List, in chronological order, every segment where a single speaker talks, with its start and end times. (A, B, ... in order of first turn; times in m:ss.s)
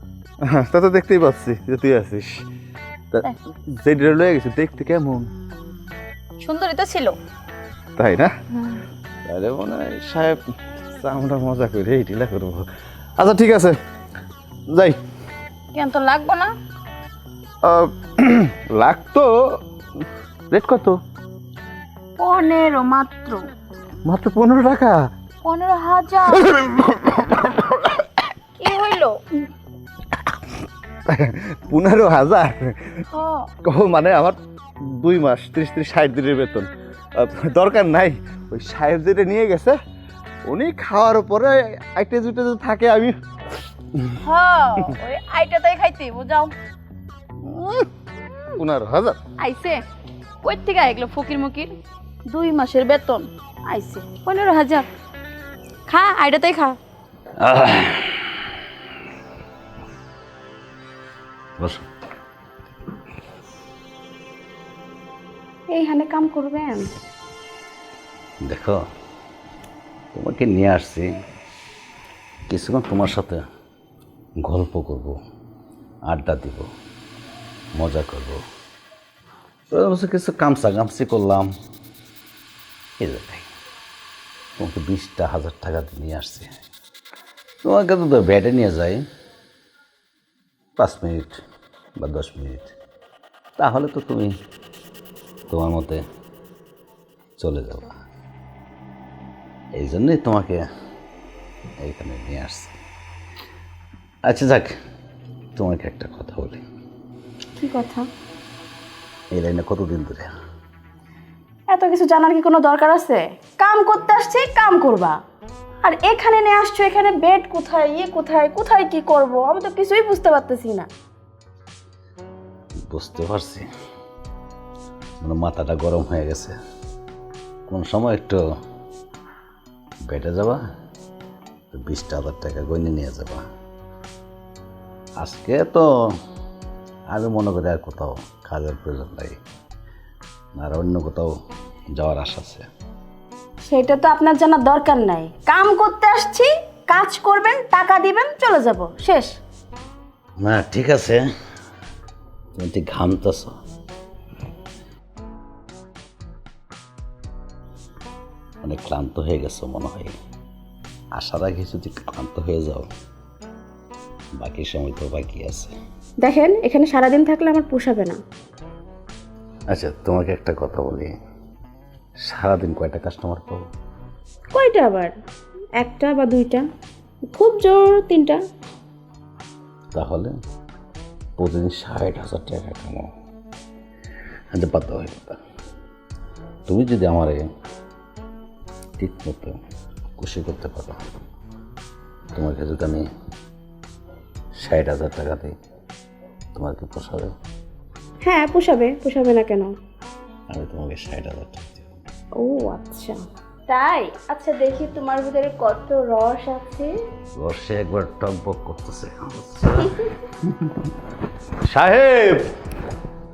0:00.4-0:02.4 A
0:03.1-0:05.3 A
0:06.4-0:07.2 B
0:08.0-0:08.3 A
0:08.6-0:08.8 B
0:09.2-0:10.4 A
0:11.0-0:13.8 A
0:14.7-0:15.0 A
0:15.7-0:16.5 B
0:17.6-0:19.6 A
0:20.5-0:21.0 A
0:22.2-0:23.5 B
0:24.0-0:25.0 A
0:25.4-0:26.5 B
0:26.4-0:28.0 A
0:28.6-0:29.2 B
0:31.1-0:33.0 A
0:33.1-0:33.5 B
0:33.6-0:39.8 A
0:40.5-0:43.2 A
0:44.2-0:46.5 B
0:47.5-0:47.9 A
0:48.6-0:49.2 A
0:49.4-0:49.8 B
0:50.4-0:51.7 B
0:52.3-0:54.9 B
0:55.9-0:56.8 B
0:57.4-0:58.5 C
1:01.6-1:01.8 C
1:05.7-1:06.9 D
1:08.4-1:08.8 C
1:10.1-1:11.1 C
1:12.5-1:13.4 C
1:14.4-1:15.2 C
1:16.1-1:16.7 C
1:17.8-1:18.4 C
1:19.7-1:21.5 C
1:23.0-1:23.5 C
1:24.6-1:26.6 C
1:27.6-1:29.0 C
1:30.8-1:31.4 C
1:32.0-1:32.8 C
1:33.6-1:34.3 C
1:35.5-1:36.0 C
1:37.4-1:38.0 C
1:39.8-1:40.6 C
1:41.8-1:42.8 C
1:44.3-1:44.7 C
1:45.6-1:46.6 C
1:47.6-1:48.1 D
1:49.3-1:50.3 C
1:51.7-1:55.2 D
1:55.8-2:00.9 D
2:02.9-2:03.6 C
2:05.2-2:06.6 C
2:07.7-2:08.4 C
2:10.1-2:10.6 C
2:11.7-2:13.5 C
2:15.2-2:15.9 C
2:17.1-2:19.4 C
2:20.6-2:21.3 C
2:22.0-2:22.7 C
2:23.6-2:29.3 D
2:30.4-2:31.2 C
2:32.5-2:33.5 C
2:38.6-2:40.1 C
2:41.1-2:42.9 C
2:44.4-2:45.7 C
2:46.2-2:48.2 D
2:49.7-2:51.2 C
2:52.2-2:53.6 C
2:54.5-2:55.1 D
2:55.8-2:56.6 D
2:57.3-2:58.4 D
2:59.9-3:00.3 C
3:01.4-3:03.1 C
3:04.5-3:05.4 C
3:06.7-3:07.5 C
3:09.0-3:09.6 C
3:10.2-3:11.0 C
3:12.3-3:13.0 C
3:14.6-3:15.5 C
3:16.6-3:17.3 C
3:18.2-3:19.7 D
3:20.5-3:21.9 C
3:22.4-3:23.2 D
3:23.7-3:26.9 D
3:27.4-3:30.9 C
3:31.6-3:32.5 A